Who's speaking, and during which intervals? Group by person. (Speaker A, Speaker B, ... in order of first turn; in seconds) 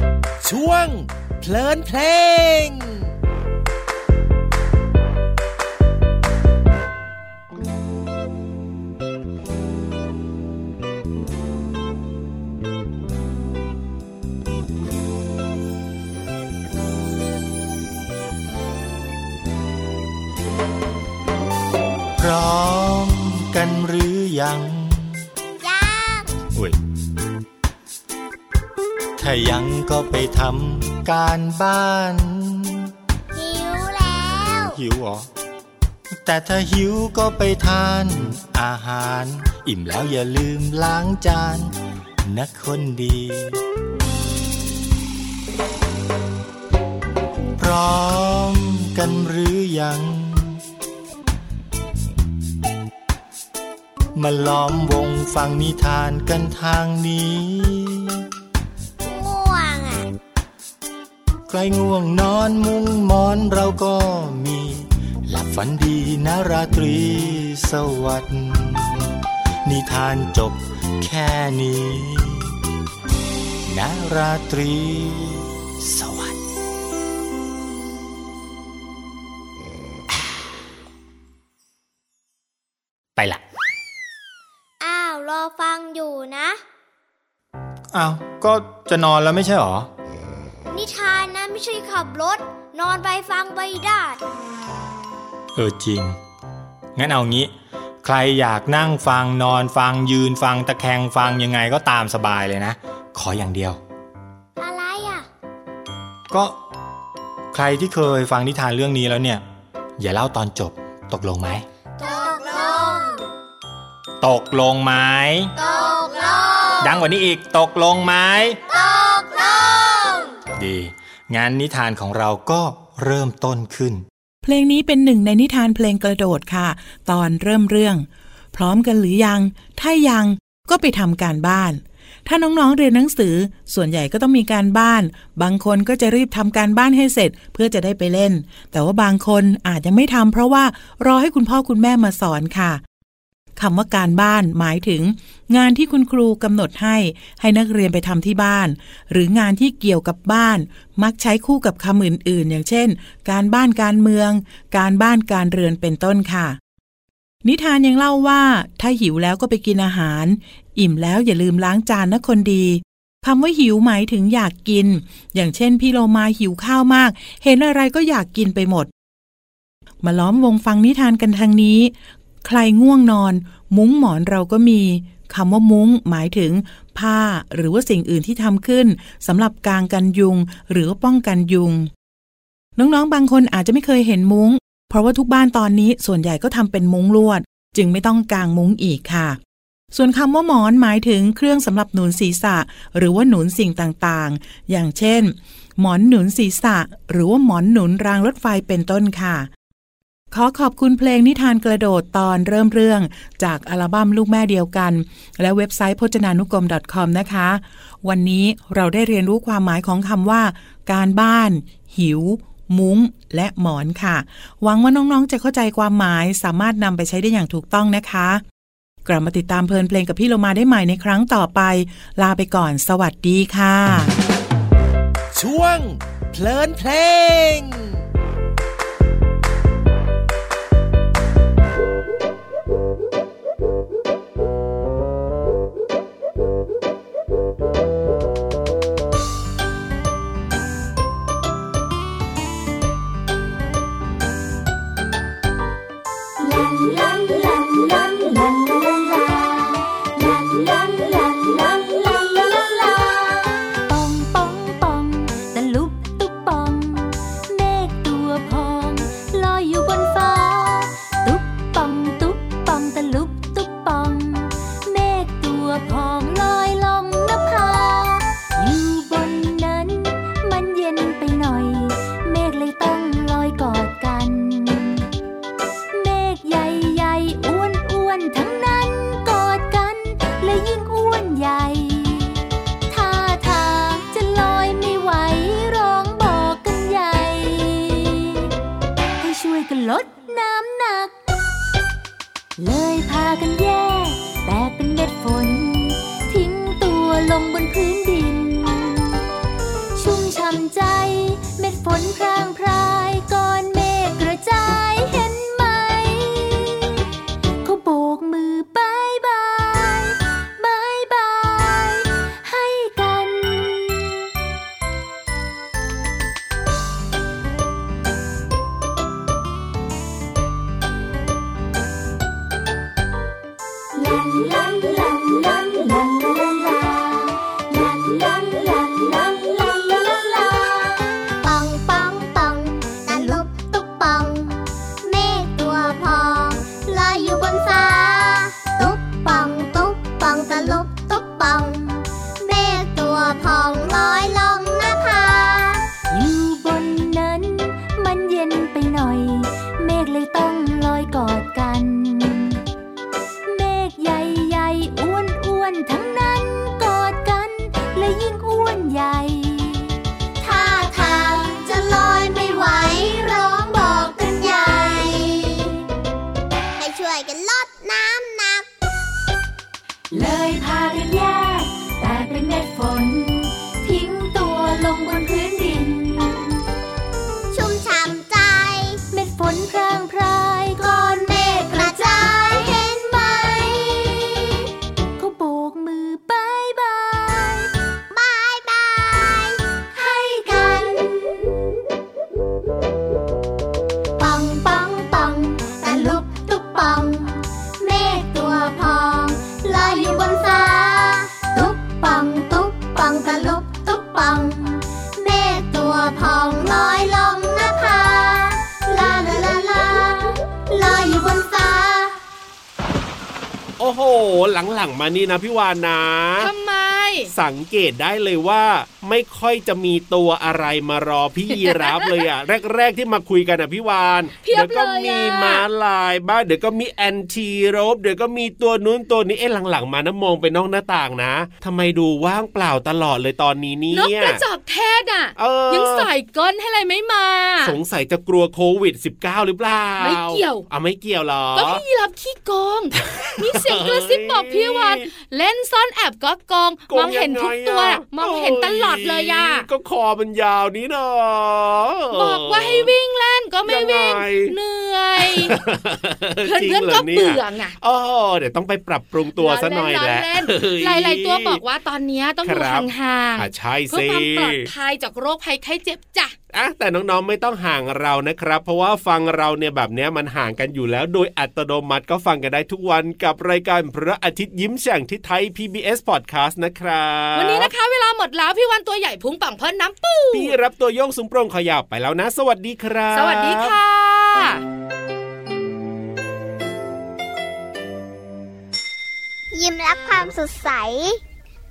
Speaker A: 0.4-3.1, 225.3-228.1
Speaker B: 22.2-25.3, 29.2-32.9, 34.7-35.3, 36.1-43.6, 47.6-50.6, 54.1-58.3, 61.5-72.6, 73.7-76.4, 87.9-89.9, 95.5-96.2, 97.0-97.5, 98.0-103.8, 106.3-106.6, 107.5-109.4, 110.0-111.7, 114.2-115.5, 116.8-118.6, 120.5-124.0
Speaker C: 25.6-26.3, 33.4-34.8, 59.0-60.1, 84.8-86.6, 90.7-94.2, 104.6-105.3, 112.0-113.2, 115.6-116.9, 118.7-120.3, 331.4-345.9, 360.4-365.7, 366.8-368.7, 377.5-379.0, 381.2-384.4, 388.1-389.6, 394.2-412.1, 489.5-491.2
Speaker D: 124.4-142.8, 143.6-156.6, 157.4-168.9, 170.0-171.9, 172.4-181.9, 182.8-189.4, 189.9-199.5, 200.3-218.4, 219.1-224.1
Speaker E: 246.4-275.1, 275.9-288.5, 289.2-291.2, 292.6-299.2, 299.9-307.0, 307.6-314.1, 323.9-330.9, 333.1-333.4, 346.1-352.6, 353.5-359.9, 370.1-376.6, 379.1-382.7, 385.2-387.7, 389.9-391.0
Speaker F: 413.8-416.5, 417.3-434.4, 435.4-436.1, 437.6-441.8, 443.0-445.1, 446.9-452.9, 453.7-454.6, 455.2-461.6, 462.4-464.7, 466.5-477.7, 480.3-483.8
Speaker G: 416.4-417.3, 421.6-422.0, 424.4-425.6, 433.9-437.8, 440.0-440.7, 441.6-449.7, 452.1-455.5, 456.4-457.8, 459.4-466.4, 477.4-480.5, 483.1-484.6